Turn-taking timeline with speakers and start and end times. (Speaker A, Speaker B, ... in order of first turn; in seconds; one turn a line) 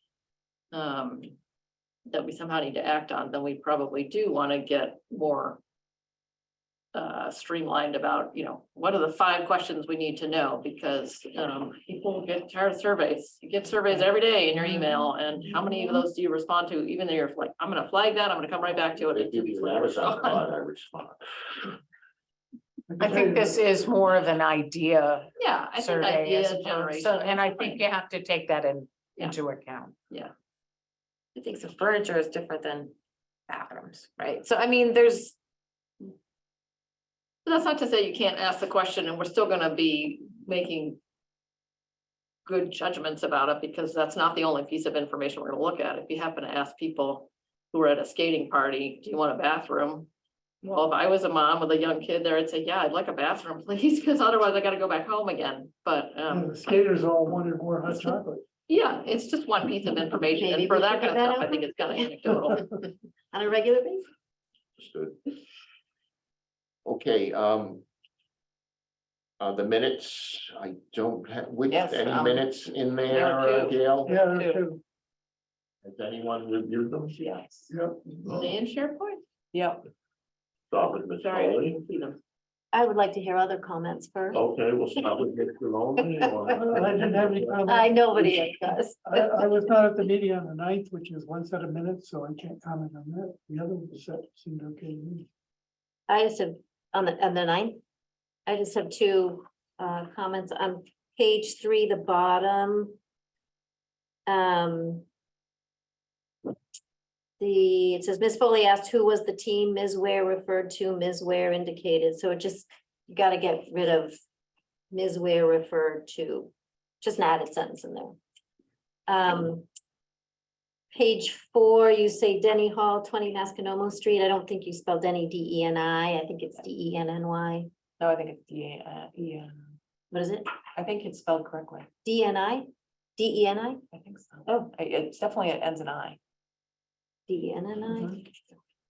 Speaker A: 0.7-1.3
Speaker A: 2.1-5.6
Speaker A: 6.9-20.4
Speaker B: 19.0-21.2
Speaker C: 22.9-23.6
Speaker D: 23.0-29.9
Speaker A: 25.4-27.8
Speaker D: 34.9-35.3
Speaker A: 37.5-41.0
Speaker A: 42.5-50.1
Speaker A: 50.6-56.5
Speaker C: 56.3-58.4
Speaker A: 58.7-62.6
Speaker E: 60.4-61.7
Speaker E: 63.3-64.1
Speaker B: 64.8-65.2
Speaker B: 66.8-67.8
Speaker B: 69.4-74.1
Speaker F: 71.7-72.5
Speaker A: 73.1-74.2
Speaker C: 74.0-74.8
Speaker F: 74.3-74.6
Speaker B: 75.8-77.2
Speaker F: 77.1-77.7
Speaker C: 77.7-78.0
Speaker A: 78.0-79.2
Speaker B: 78.2-78.5
Speaker F: 79.5-79.8
Speaker B: 80.7-81.8
Speaker A: 81.2-82.2
Speaker E: 82.7-84.4
Speaker B: 84.3-87.6
Speaker E: 86.3-86.9
Speaker C: 86.5-95.3
Speaker E: 87.7-89.7
Speaker E: 96.1-97.8
Speaker E: 98.5-103.0
Speaker E: 104.3-105.0
Speaker E: 107.4-114.2
Speaker E: 114.9-118.2
Speaker E: 119.1-119.7
Speaker E: 120.9-127.7
Speaker F: 128.0-129.5
Speaker E: 130.1-130.5
Speaker F: 130.7-131.9
Speaker E: 132.0-133.8
Speaker F: 133.9-136.2
Speaker E: 137.3-138.3